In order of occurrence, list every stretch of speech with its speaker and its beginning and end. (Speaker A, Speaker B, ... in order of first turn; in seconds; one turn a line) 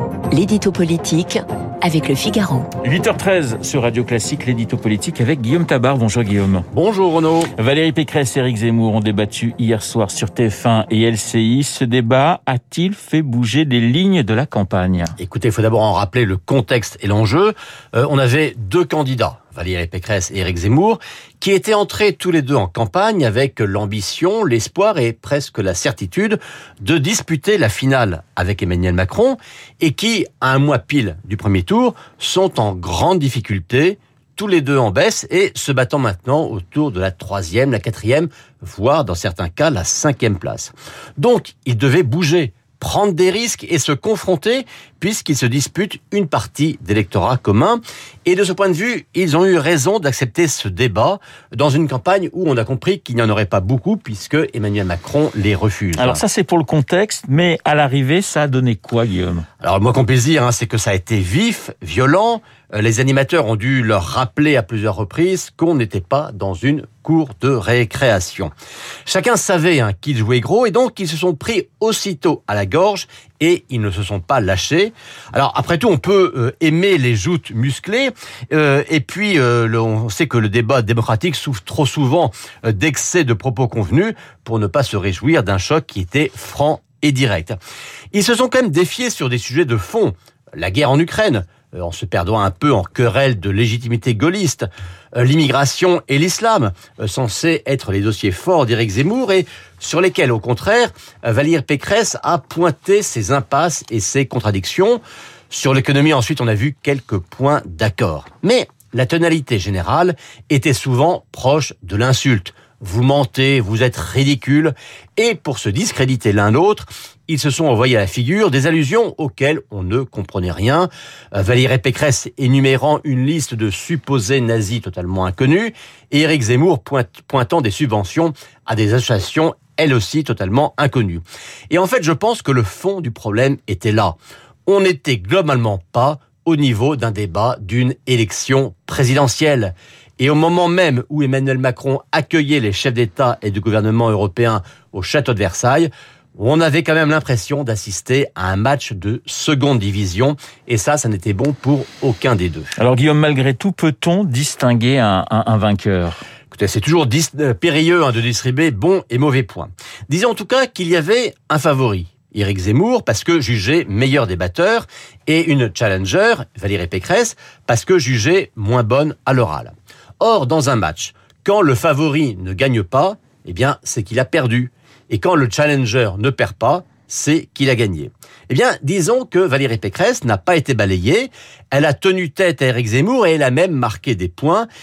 Speaker A: 0.3-2.7
Speaker B: 2.8-6.7
Speaker C: 6.7-7.5
Speaker B: 7.6-15.1
Speaker C: 15.2-56.2
Speaker B: 56.0-59.5
Speaker C: 59.6-68.5
Speaker C: 69.0-87.6
Speaker C: 88.1-152.7
Speaker B: 152.8-156.2
Speaker C: 156.5-184.7